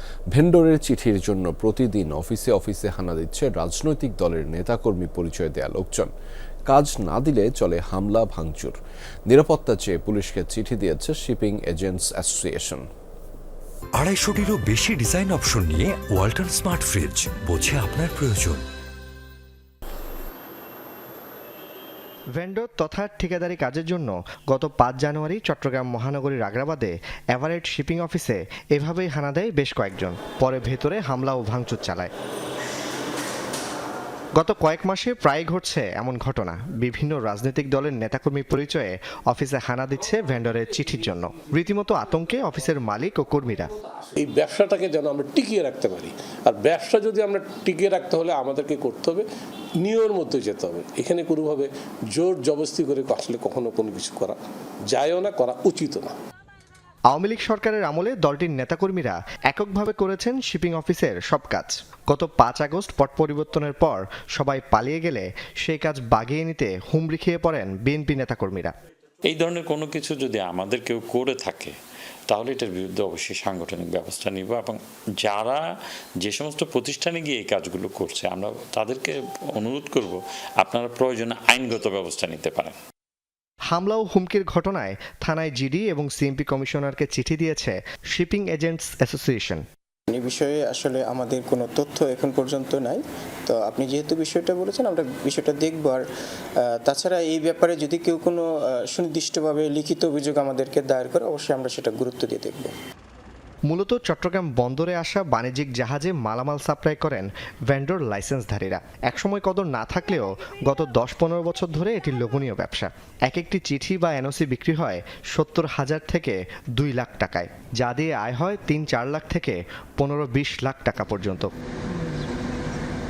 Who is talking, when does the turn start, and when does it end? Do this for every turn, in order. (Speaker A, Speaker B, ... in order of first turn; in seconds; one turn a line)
Speaker A: 0.3-6.1
Speaker A: 6.7-8.8
Speaker A: 9.3-12.8
Speaker B: 13.9-18.6
Speaker C: 22.3-32.1
Speaker C: 34.4-43.7
Speaker D: 44.1-49.3
Speaker D: 49.8-56.1
Speaker C: 57.1-68.7
Speaker E: 69.3-71.7
Speaker E: 72.3-75.6
Speaker E: 76.2-82.7
Speaker C: 83.7-89.6
Speaker F: 90.1-96.0
Speaker F: 96.6-102.7
Speaker C: 103.7-121.5